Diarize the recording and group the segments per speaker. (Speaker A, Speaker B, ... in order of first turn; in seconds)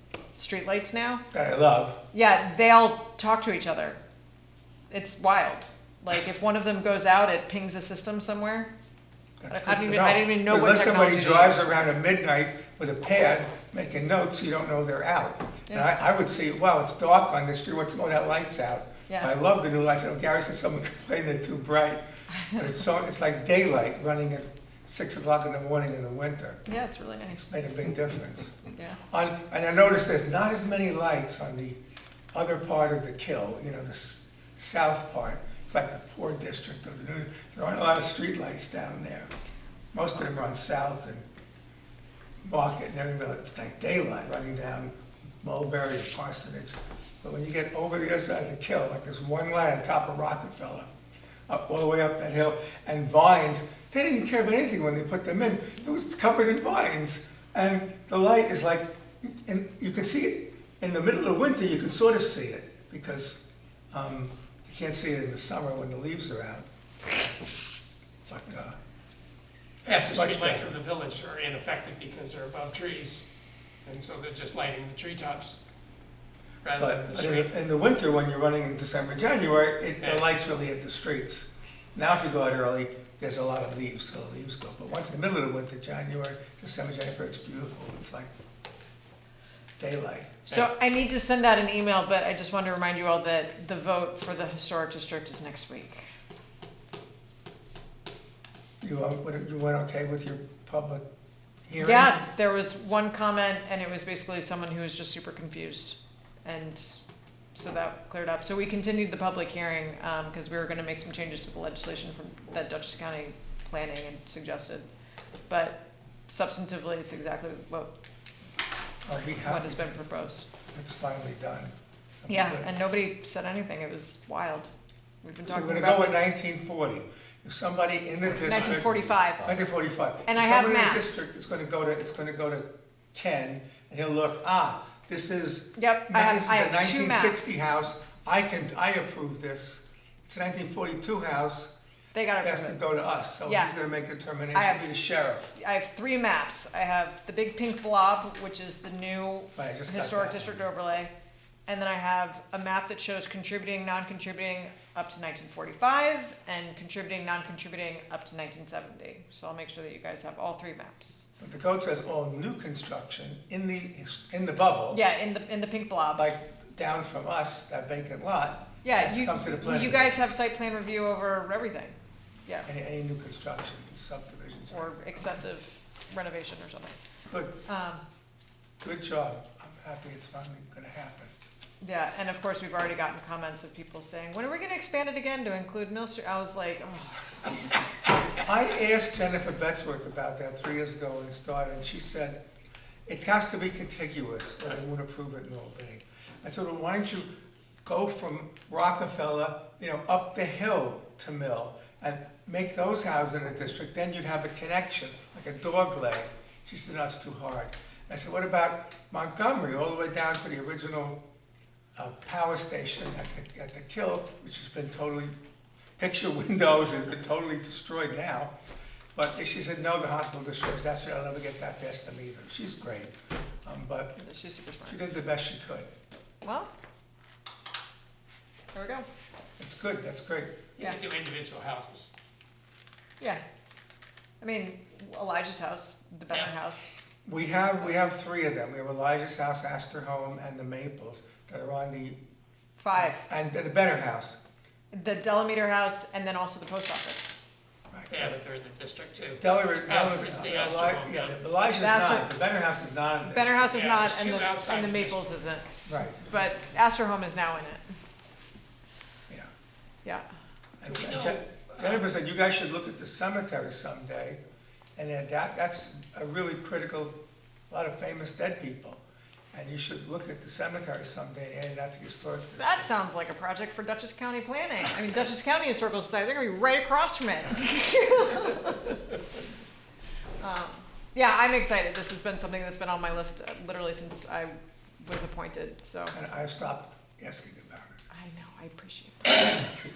Speaker A: 0.3-1.2, 2.1-4.0, 4.9-8.7, 9.5-11.7, 26.7-27.5, 90.5-96.0, 101.8-107.0, 107.5-114.8, 115.5-117.9, 119.4-120.5, 122.5-124.7, 125.2-126.3, 128.4-129.5, 130.3-131.2, 135.8-137.7, 142.1-142.8, 143.4-143.7, 144.5-144.9, 145.5-151.1, 151.7-161.3, 164.9-166.2, 168.8-172.7, 174.7-176.9, 177.7-178.0, 181.8-187.7, 224.2-225.0, 226.4-226.7, 228.7-229.1, 234.4-236.9, 242.8-243.2, 244.9-247.3, 251.8-252.3, 253.2-255.7, 256.2-257.8, 272.6-279.0, 280.4-286.1, 288.1-289.7
Speaker B: 1.3-2.0, 9.4-26.6, 27.3-31.8, 32.3-39.3, 39.9-41.2, 42.4-50.9, 51.5-66.6, 68.2-68.8, 69.9-70.8, 76.8-88.3, 89.8-90.3, 98.8-101.0, 101.7-102.2, 119.0-120.0, 120.7-122.7, 125.5-141.7, 142.4-145.5, 149.6-150.5, 161.4-165.0, 166.1-170.1, 172.7-175.4, 177.3-177.5, 178.8-181.3, 188.4-192.4, 193.1-197.3, 197.8-211.2, 211.9-215.3, 216.0-218.5, 219.1-223.1, 223.6-224.2, 224.8-225.9, 229.6-230.7, 237.2-242.2, 242.9-244.4, 247.9-248.3, 249.4-253.6, 255.8-256.3, 260.8-264.4, 264.9-267.1, 267.7-269.0, 269.5-272.9, 286.1-288.0
Speaker C: 69.8-73.3, 73.8-75.6, 76.6-77.5, 80.0-80.3, 128.4-128.7, 230.8-232.1, 248.1-251.3, 253.6-255.3, 260.8-262.1